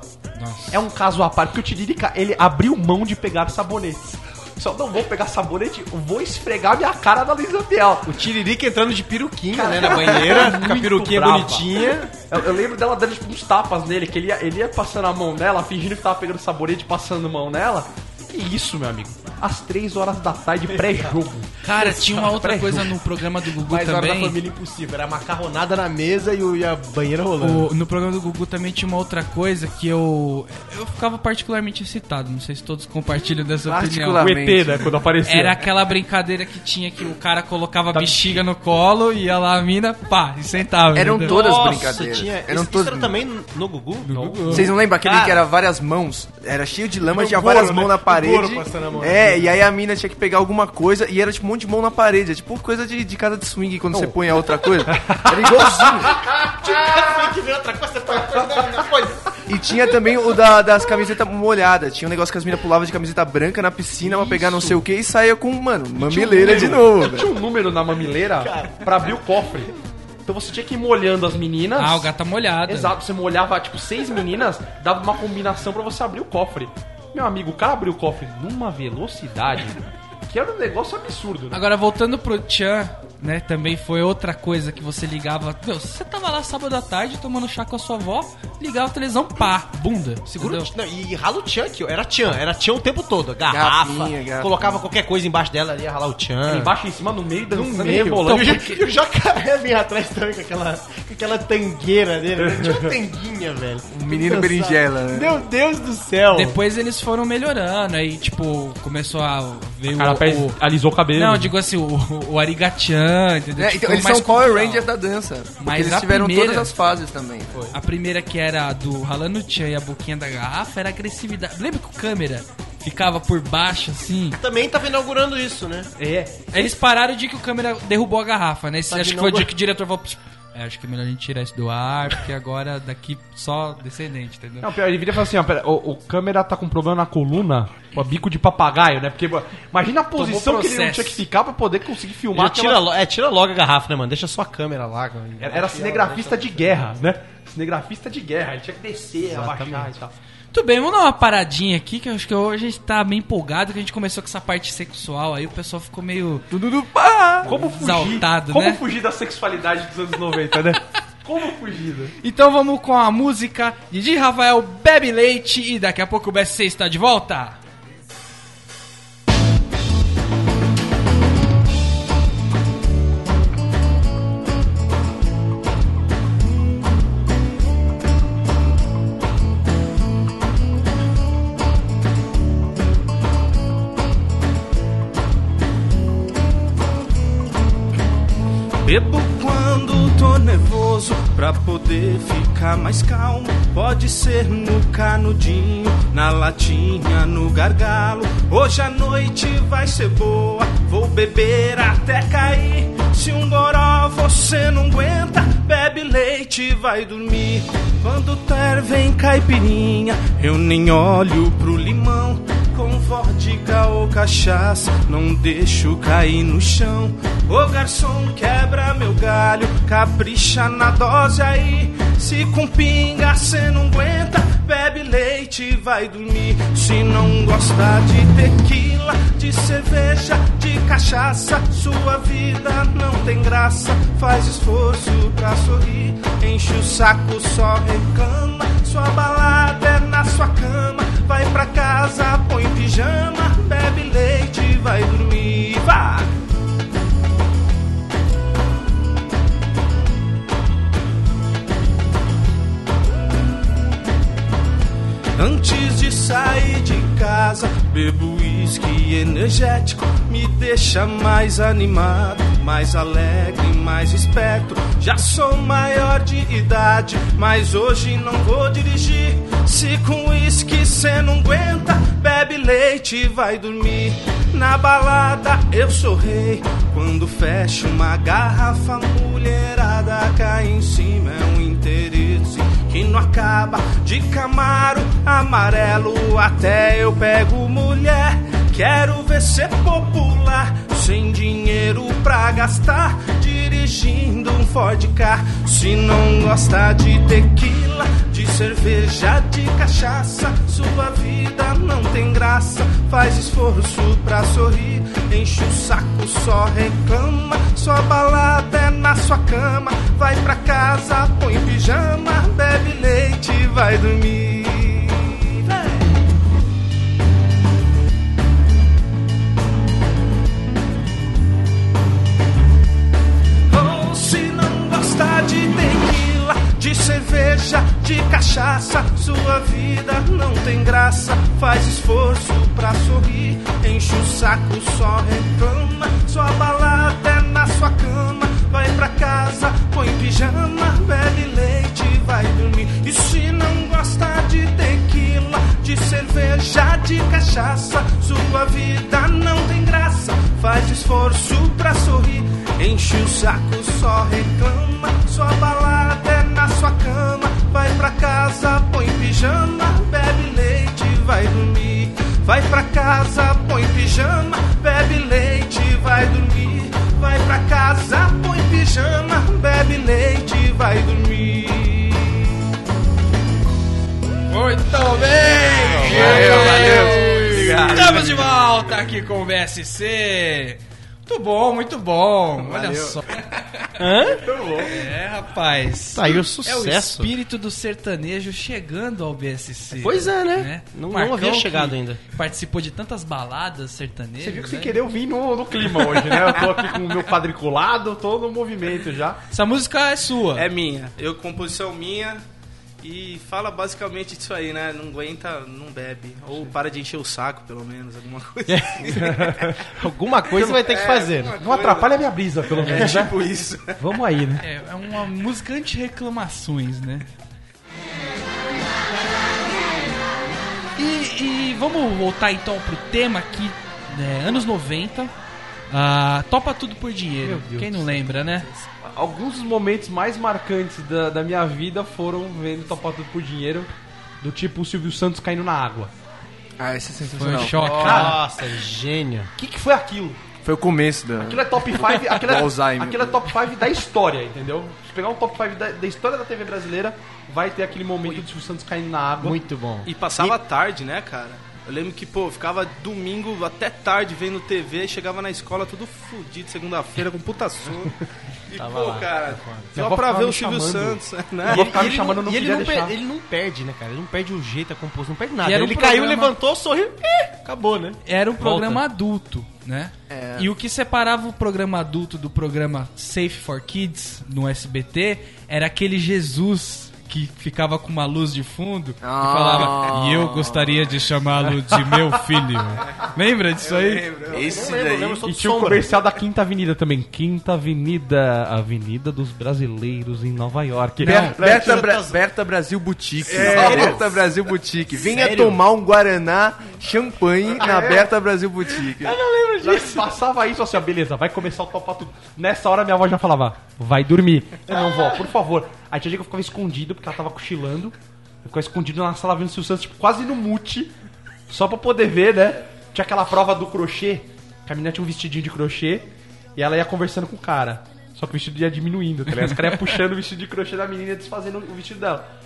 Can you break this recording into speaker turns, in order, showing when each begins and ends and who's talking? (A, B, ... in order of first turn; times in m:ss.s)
0:00.3-0:00.8 A
0:00.7-0:08.1 B
0:08.0-0:12.1 C
0:09.5-0:23.0 B
0:20.7-0:21.2 C
0:21.6-0:24.4 A
0:23.6-0:27.7 C
0:27.4-0:34.2 A
0:33.6-0:35.0 D
0:34.2-0:35.7 B
0:35.2-0:41.4 A
0:37.9-0:38.4 B
0:40.9-0:43.2 D
0:41.2-0:45.4 C
0:44.0-0:44.7 A
0:44.1-0:44.7 B
0:44.5-0:56.1 D
0:47.1-0:49.5 C
0:54.9-0:56.1 B
0:56.0-0:59.3 C
0:59.5-1:07.3 D
1:04.0-1:04.8 B
1:06.0-1:09.7 B
1:08.4-1:09.1 C
1:10.2-1:12.1 B
1:11.8-1:13.0 A
1:12.7-1:21.6 B
1:21.5-1:30.7 A
1:30.3-1:36.7 C
1:33.5-1:34.8 D
1:36.5-1:38.6 B
1:37.5-1:46.6 C
1:38.2-1:38.8 A
1:42.4-1:42.9 B
1:43.8-1:45.4 D
1:46.3-1:50.6 A
1:50.0-1:51.5 B
1:51.1-1:54.9 A
1:53.6-1:57.7 D
1:55.6-1:56.8 A
1:57.7-2:04.4 A
2:04.4-2:05.9 C
2:06.0-2:06.7 B
2:06.5-2:14.7 A
2:08.9-2:09.5 C
2:14.6-2:22.9 B
2:20.2-2:21.2 A
2:22.3-2:26.9 C
2:25.4-2:30.1 B
2:29.3-2:29.9 C
2:30.5-2:36.5 A
2:36.5-2:37.5 D
2:37.4-2:42.1 B
2:37.5-2:38.8 A
2:42.2-2:47.6 A
3:08.8-4:06.3 E
4:15.4-5:16.1 E
5:23.7-6:12.6 E
6:14.5-6:23.9 A
6:16.0-6:18.4 D
6:16.1-6:17.9 C
6:16.4-6:18.0 E
6:22.6-6:23.1 E
6:24.0-6:24.5 C
6:24.5-6:24.9 B
6:24.8-6:35.0 A
6:26.1-6:27.3 C
6:30.0-6:32.2 C
6:34.4-6:39.4 B
6:39.5-6:40.7 A
6:40.5-6:42.4 E
6:43.0-6:49.4 E
6:48.7-6:51.5 C
6:49.2-6:49.8 B
6:50.6-6:54.0 E
6:51.6-6:53.4 B
6:52.8-6:53.1 C
6:54.0-6:54.6 B
6:54.6-6:57.3 A
7:01.0-7:05.3 A
7:05.9-7:08.7 A
7:07.4-7:08.2 B
7:09.0-7:13.9 B
7:14.4-7:16.1 B
7:16.8-7:18.0 D
7:17.2-7:18.4 A
7:17.5-7:18.4 B
7:17.8-7:19.5 C
7:19.6-7:20.4 B
7:20.6-7:23.5 D
7:21.4-7:29.6 B
7:29.4-7:30.5 C
7:30.0-7:38.2 E
7:38.7-7:42.0 E
7:38.8-7:39.8 C
7:39.9-7:43.1 B
7:41.6-7:49.0 C
7:45.6-7:46.5 A
7:48.2-8:04.3 A
7:50.3-7:50.7 D
7:59.2-8:01.2 D
8:04.1-8:04.6 E
8:04.3-8:05.4 D
8:04.5-8:06.2 C
8:05.4-8:12.0 B
8:11.2-8:19.4 D
8:11.2-8:11.5 A
8:11.3-8:12.4 C
8:13.4-8:14.4 C
8:13.5-8:14.2 B
8:15.2-8:15.8 C
8:17.8-8:18.2 C
8:19.0-8:20.3 C
8:19.8-8:31.1 B
8:31.7-8:42.4 B